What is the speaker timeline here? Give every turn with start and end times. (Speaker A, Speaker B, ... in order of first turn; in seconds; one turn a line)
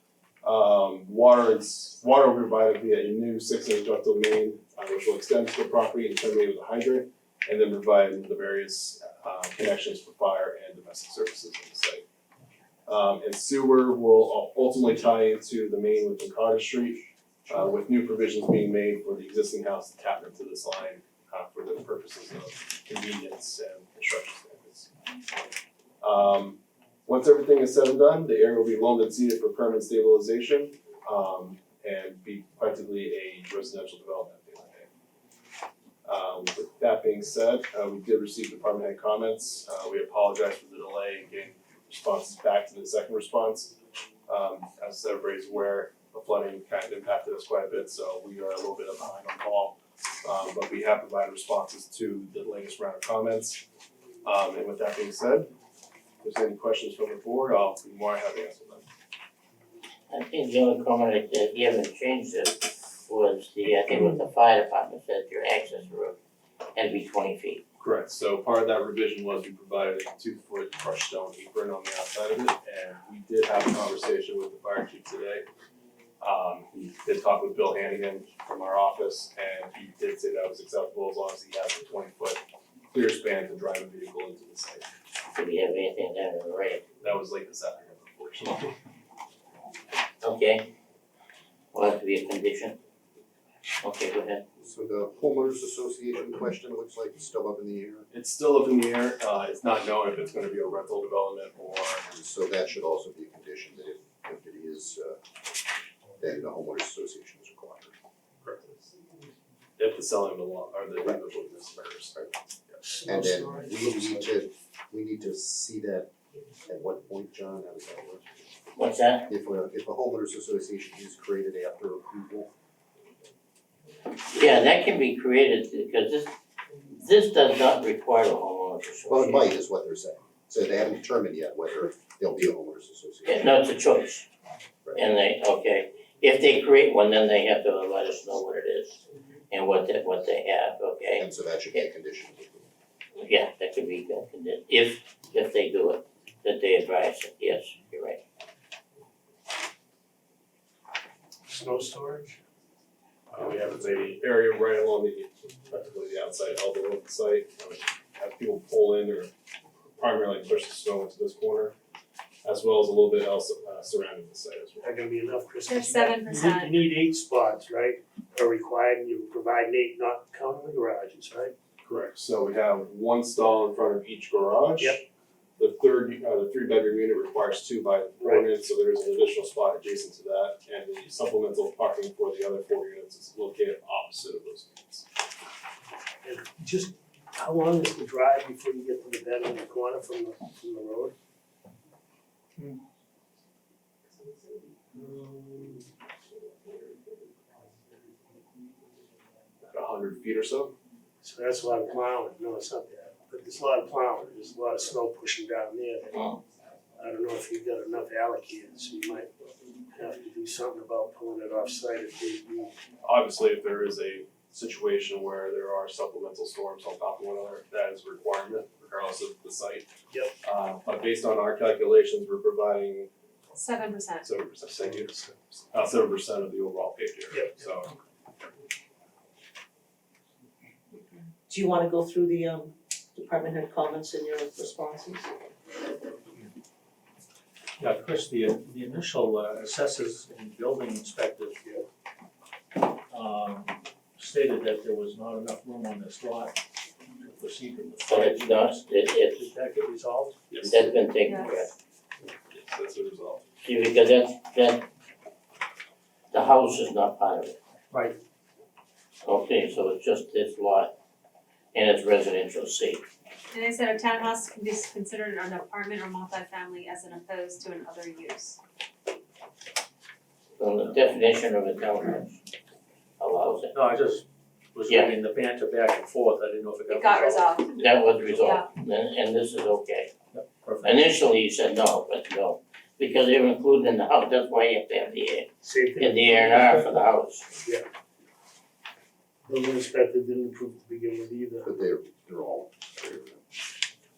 Speaker A: 0.4-12.0
Speaker A: 12.9-24.9
Speaker A: 26.0-34.9
Speaker A: 36.0-43.7
Speaker A: 44.3-53.6
Speaker A: 54.2-55.5
Speaker A: 56.2-58.9
Speaker B: 60.1-66.2
Speaker B: 66.7-67.6
Speaker A: 67.8-75.5
Speaker A: 76.2-84.9
Speaker B: 85.3-86.8
Speaker A: 87.0-88.7
Speaker B: 90.2-90.7
Speaker B: 91.7-92.8
Speaker B: 93.8-94.5
Speaker C: 94.6-98.1
Speaker A: 98.1-102.0
Speaker C: 102.1-105.2
Speaker C: 106.2-107.9
Speaker A: 108.4-108.7
Speaker A: 109.8-112.8
Speaker D: 112.8-114.3
Speaker C: 113.0-116.1
Speaker C: 116.6-118.3
Speaker B: 118.8-119.3
Speaker C: 119.3-122.5
Speaker B: 124.3-126.3
Speaker B: 126.9-129.5
Speaker C: 129.1-133.5
Speaker B: 133.2-134.3
Speaker B: 134.9-141.8
Speaker C: 141.2-142.7
Speaker B: 143.2-148.2
Speaker D: 151.5-152.4
Speaker A: 153.3-159.3
Speaker A: 160.0-161.7
Speaker A: 162.4-164.9
Speaker D: 164.8-171.5
Speaker E: 165.7-166.8
Speaker A: 171.8-175.0
Speaker A: 175.6-185.1
Speaker D: 186.2-191.1
Speaker A: 199.7-200.7
Speaker D: 201.2-206.2
Speaker B: 206.1-206.4
Speaker D: 207.0-209.3
Speaker D: 209.9-212.7
Speaker A: 213.0-219.9
Speaker A: 220.4-223.1
Speaker E: 223.5-224.3
Speaker A: 224.2-227.9
Speaker D: 227.3-227.6
Speaker F: 231.5-235.3
Speaker G: 237.8-241.6
Speaker G: 243.1-250.4
Speaker B: 248.0-249.5
Speaker A: 250.5-250.8
Speaker B: 250.6-251.7
Speaker E: 251.2-251.7
Speaker A: 252.5-253.4
Speaker B: 253.6-254.9
Speaker B: 256.3-257.6
Speaker G: 257.9-258.2
Speaker B: 259.2-260.9
Speaker B: 261.7-263.0
Speaker E: 263.5-268.6
Speaker B: 270.6-272.4
Speaker B: 273.2-273.8
Speaker G: 273.7-278.6
Speaker B: 274.9-275.2
Speaker E: 276.9-277.9
Speaker B: 277.8-280.1
Speaker E: 278.4-278.7
Speaker G: 280.3-281.1
Speaker B: 280.8-287.5
Speaker D: 285.6-286.8
Speaker G: 286.8-287.0
Speaker D: 289.4-291.7
Speaker C: 291.6-293.4